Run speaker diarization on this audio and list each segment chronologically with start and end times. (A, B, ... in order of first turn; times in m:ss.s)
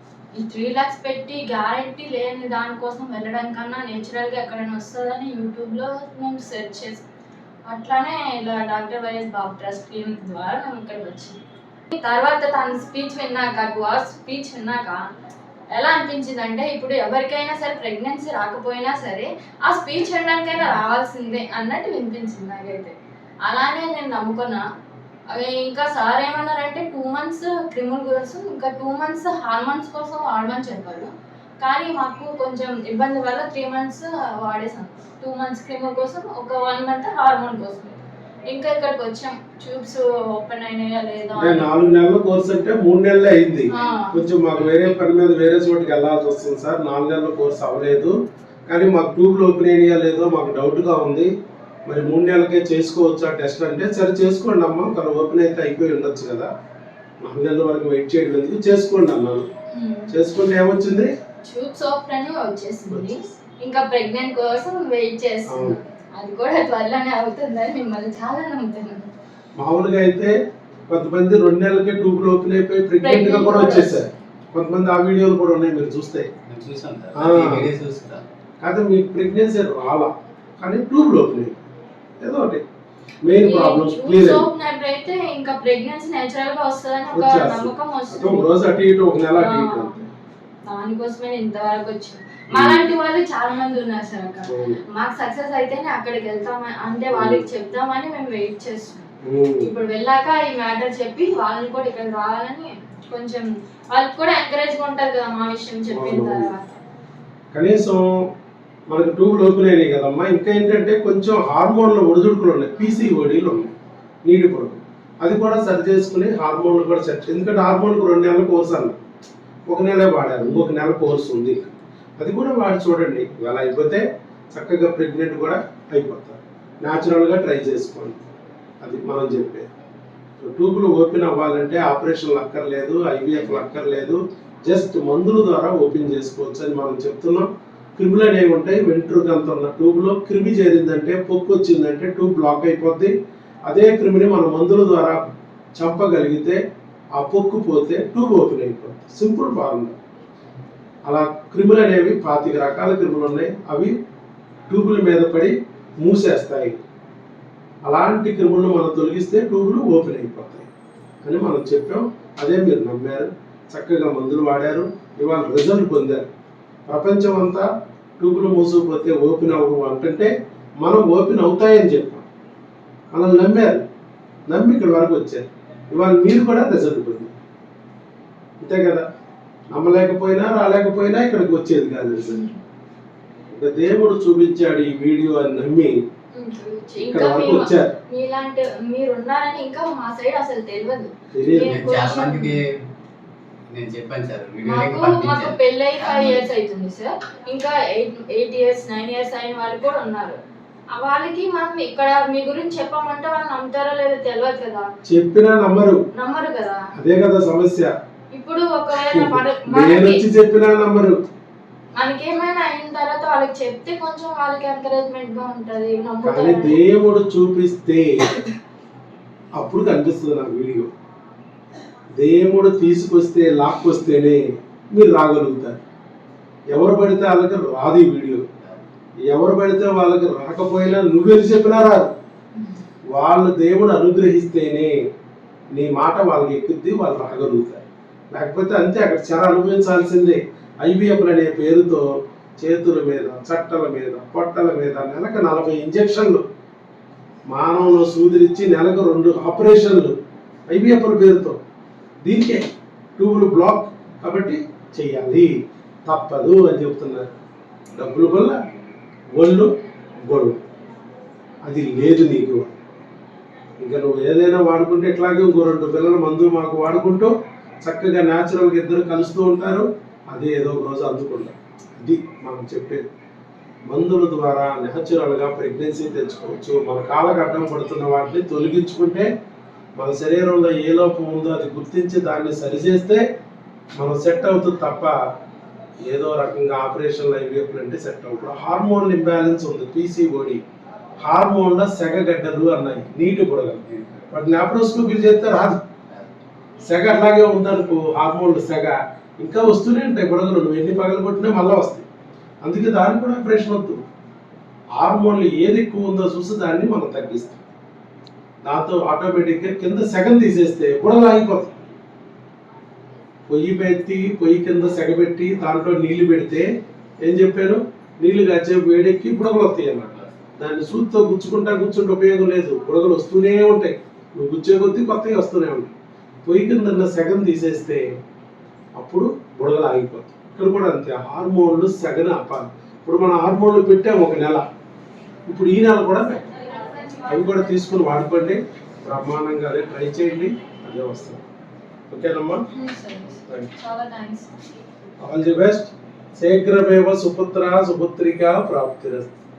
0:00.3-0:07.0 A
0:07.7-0:11.4 A
0:11.9-0:15.0 A
0:15.7-0:22.9 A
0:23.4-0:24.6 A
0:25.3-0:38.0 A
0:38.5-0:41.7 A
0:41.4-0:48.1 B
0:43.7-0:44.2 A
0:48.7-0:51.3 B
0:51.9-0:56.5 B
0:57.2-0:59.4 B
0:59.7-1:00.1 A
1:00.1-1:01.1 B
1:01.4-1:09.1 A
1:02.9-1:03.2 B
1:05.5-1:05.8 B
1:09.6-1:10.3 B
1:10.9-1:16.3 B
1:13.0-1:14.1 A
1:16.5-1:18.2 C
1:17.2-1:17.7 B
1:18.6-1:21.6 B
1:22.2-1:22.6 B
1:23.2-1:24.5 B
1:23.4-1:28.6 A
1:27.1-1:30.1 B
1:29.3-1:30.0 A
1:30.6-1:46.8 A
1:32.5-1:32.9 B
1:34.5-1:34.8 B
1:37.1-1:37.4 B
1:39.2-1:39.7 B
1:45.9-1:46.5 B
1:47.5-1:48.3 B
1:48.9-1:53.7 B
1:54.2-1:59.0 B
1:59.7-2:08.2 B
2:08.8-2:09.7 B
2:10.4-2:23.1 B
2:23.7-2:26.6 B
2:27.1-2:29.9 B
2:31.1-2:33.9 B
2:34.7-2:36.8 B
2:37.8-2:40.7 B
2:41.2-2:46.3 B
2:46.8-2:47.6 B
2:48.2-2:52.3 B
2:53.1-2:53.8 B
2:54.5-2:57.3 B
2:58.6-2:59.0 B
2:59.7-3:02.4 B
3:02.3-3:02.6 A
3:03.5-3:06.0 B
3:06.4-3:12.6 A
3:07.0-3:07.9 B
3:11.3-3:11.8 B
3:11.6-3:12.8 C
3:13.7-3:16.4 C
3:14.6-3:20.4 A
3:20.9-3:24.9 A
3:25.0-3:26.0 B
3:26.1-3:26.8 A
3:26.9-3:27.9 B
3:28.3-3:30.2 A
3:29.0-3:31.1 B
3:32.0-3:36.8 A
3:36.2-3:38.2 B
3:39.6-3:40.9 B
3:42.2-3:45.8 B
3:46.7-3:48.5 B
3:49.3-3:52.1 B
3:53.1-3:54.9 B
3:55.7-4:06.4 B
4:07.5-4:10.1 B
4:10.7-4:11.6 B
4:12.2-4:12.6 B
4:13.2-4:15.5 B
4:16.0-4:17.3 B
4:17.9-4:18.6 B
4:19.4-4:19.7 B
4:20.2-4:20.6 B
4:21.6-4:22.8 B
4:23.8-4:33.0 B
4:33.9-4:39.3 B
4:40.0-4:43.2 B
4:44.0-4:45.2 B
4:46.0-4:50.6 B
4:51.2-4:55.8 B
4:53.9-4:54.3 C
4:56.8-5:02.0 B
5:02.6-5:04.0 B
5:05.0-5:07.6 B
5:08.6-5:11.7 B
5:13.5-5:16.7 B
5:17.2-5:25.9 B
5:26.4-5:28.1 B
5:29.0-5:34.6 B
5:35.5-5:36.6 B
5:37.1-5:41.4 B
5:42.1-5:42.6 B
5:42.7-5:44.5 A
5:45.2-5:49.3 B